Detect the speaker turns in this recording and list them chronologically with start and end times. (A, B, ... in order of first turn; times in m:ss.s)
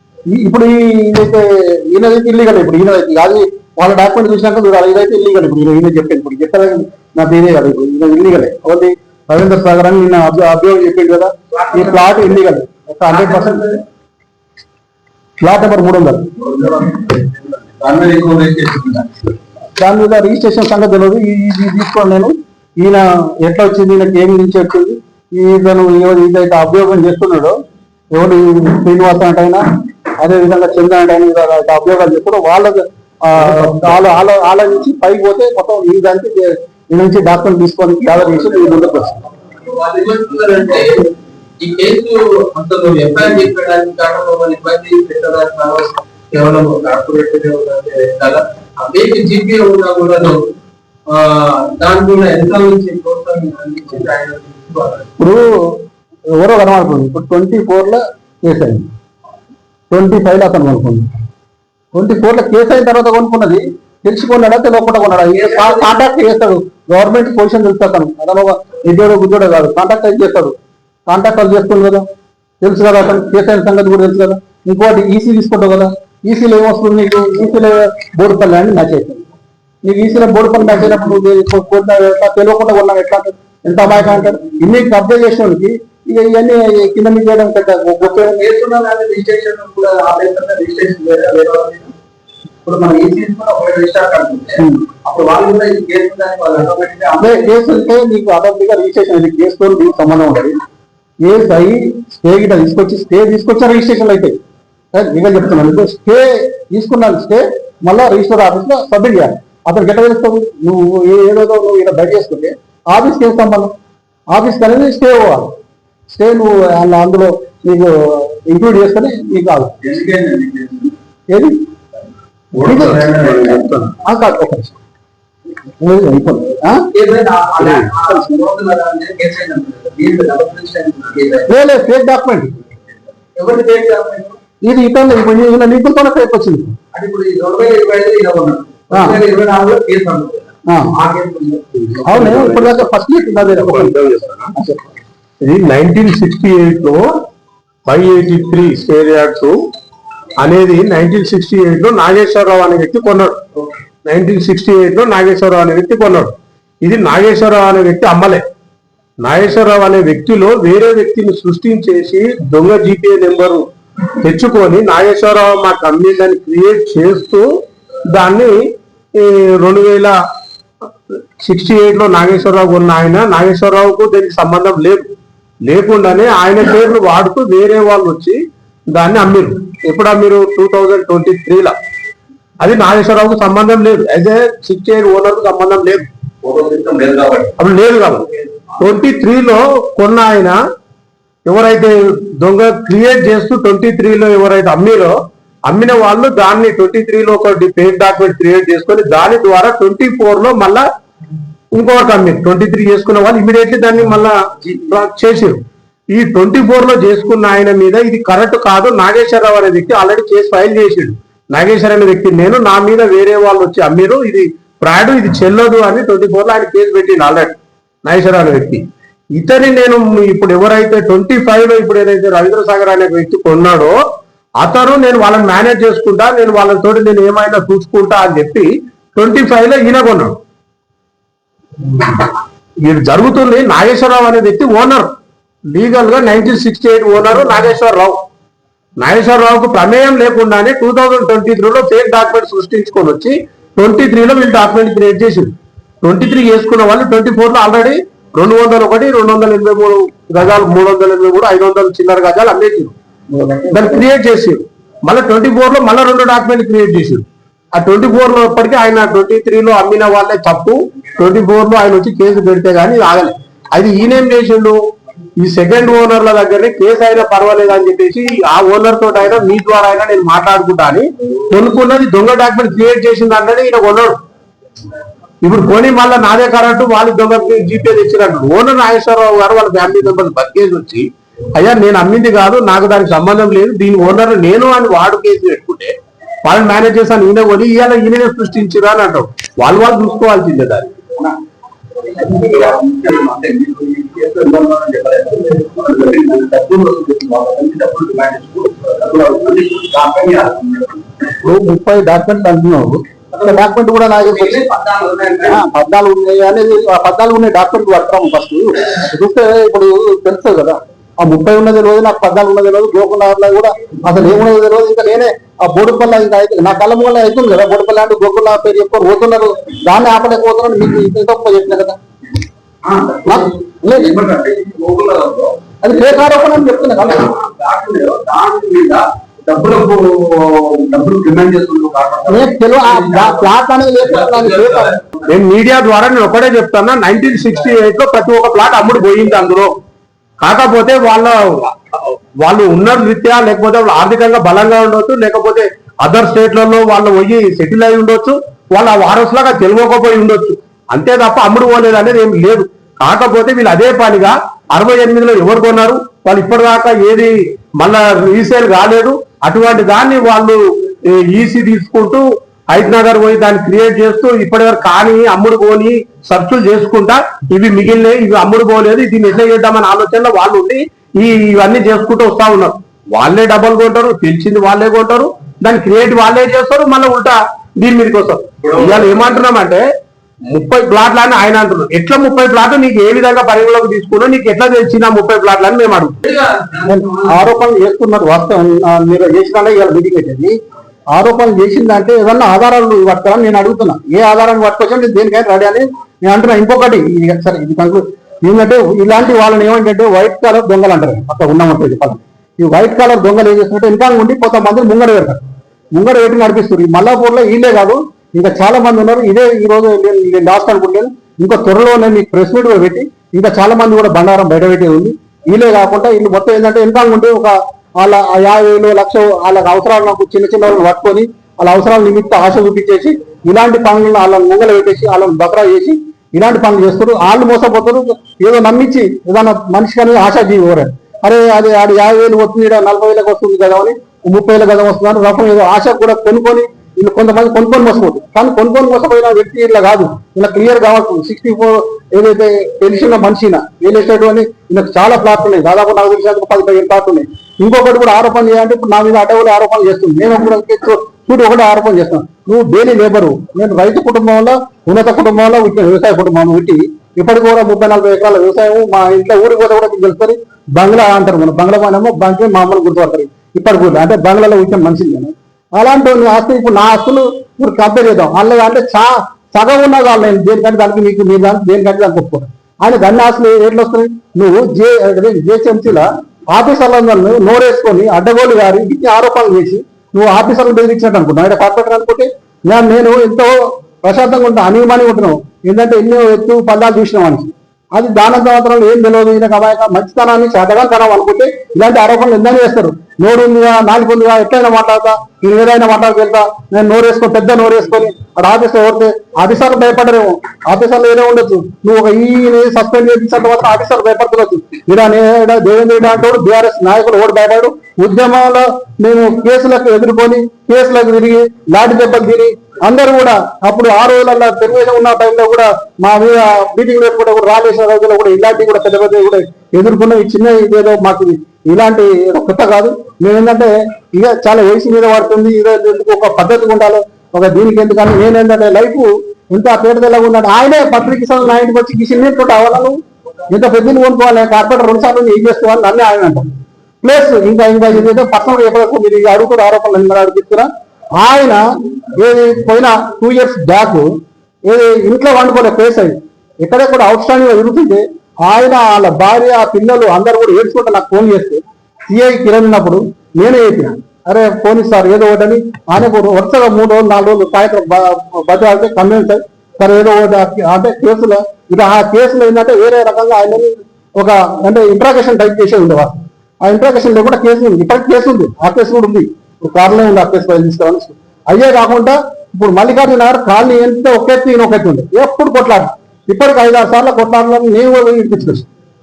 0:00.3-0:13.7 A
0:11.5-0:12.4 B
0:13.1-0:13.8 B
0:15.4-0:16.3 A
0:16.4-0:19.2 B
0:19.8-0:27.6 A
0:28.1-0:29.6 A
0:30.2-0:39.2 A
0:39.6-0:50.5 B
0:51.1-0:55.1 B
0:55.2-0:55.8 A
0:56.3-0:58.9 A
0:59.9-1:01.1 A
1:01.9-1:10.5 A
1:05.3-1:05.9 B
1:11.1-1:12.0 A
1:12.6-1:19.2 A
1:19.8-1:28.4 A
1:28.1-1:31.9 B
1:32.6-1:37.5 B
1:34.6-1:34.8 A
1:37.2-1:40.6 A
1:41.2-1:44.4 A
1:44.9-1:53.7 A
1:54.3-1:55.5 A
1:56.1-1:59.8 A
1:59.8-2:00.9 B
2:01.3-2:01.6 A
2:02.6-2:03.6 B
2:02.6-2:03.9 C
2:02.6-2:03.1 A
2:04.0-2:04.8 A
2:05.8-2:06.9 A
2:06.9-2:11.5 B
2:08.0-2:08.3 A
2:11.5-2:12.7 A
2:13.3-2:14.4 B
2:14.6-2:16.8 A
2:16.9-2:22.4 B
2:18.9-2:19.2 A
2:20.7-2:20.9 A
2:22.0-2:22.8 C
2:22.0-2:24.0 A
2:23.6-2:24.5 C
2:24.5-2:24.8 A
2:25.4-2:27.1 C
2:27.9-2:29.6 C
2:30.4-2:33.4 C
2:34.0-2:38.4 C
2:39.2-2:43.6 C
2:44.2-2:47.5 C
2:48.1-2:50.2 C
2:51.4-2:55.1 C
2:55.6-2:58.4 C
2:58.9-3:01.7 C
3:02.6-3:06.1 C
3:06.4-3:07.6 B
3:07.6-3:10.6 C
3:11.4-3:20.8 C
3:21.7-3:25.6 C
3:26.1-3:38.8 C
3:39.3-3:44.0 C
3:44.6-3:50.4 C
3:51.8-3:52.3 C
3:52.8-3:55.1 C
3:55.7-3:58.2 C
3:59.0-4:12.9 C
4:13.3-4:14.0 A
4:13.7-4:17.2 C
4:17.7-4:24.8 C
4:25.4-4:34.2 C
4:35.4-4:45.9 C
4:46.4-4:50.9 C
4:52.0-5:01.3 B
5:01.4-5:04.6 A
5:03.3-5:03.6 B
5:04.2-5:05.6 B
5:05.4-5:22.0 A
5:22.8-5:35.3 B
5:23.2-5:24.1 A
5:25.8-5:27.3 A
5:32.3-5:34.9 A
5:35.3-5:39.7 C
5:40.4-6:19.8 C
6:18.6-6:19.4 B
6:20.5-6:26.2 C
6:26.2-6:27.5 B
6:26.8-6:30.5 A
6:31.1-6:45.4 A
6:45.9-8:56.5 A
8:57.0-9:04.1 A
9:04.6-9:38.7 A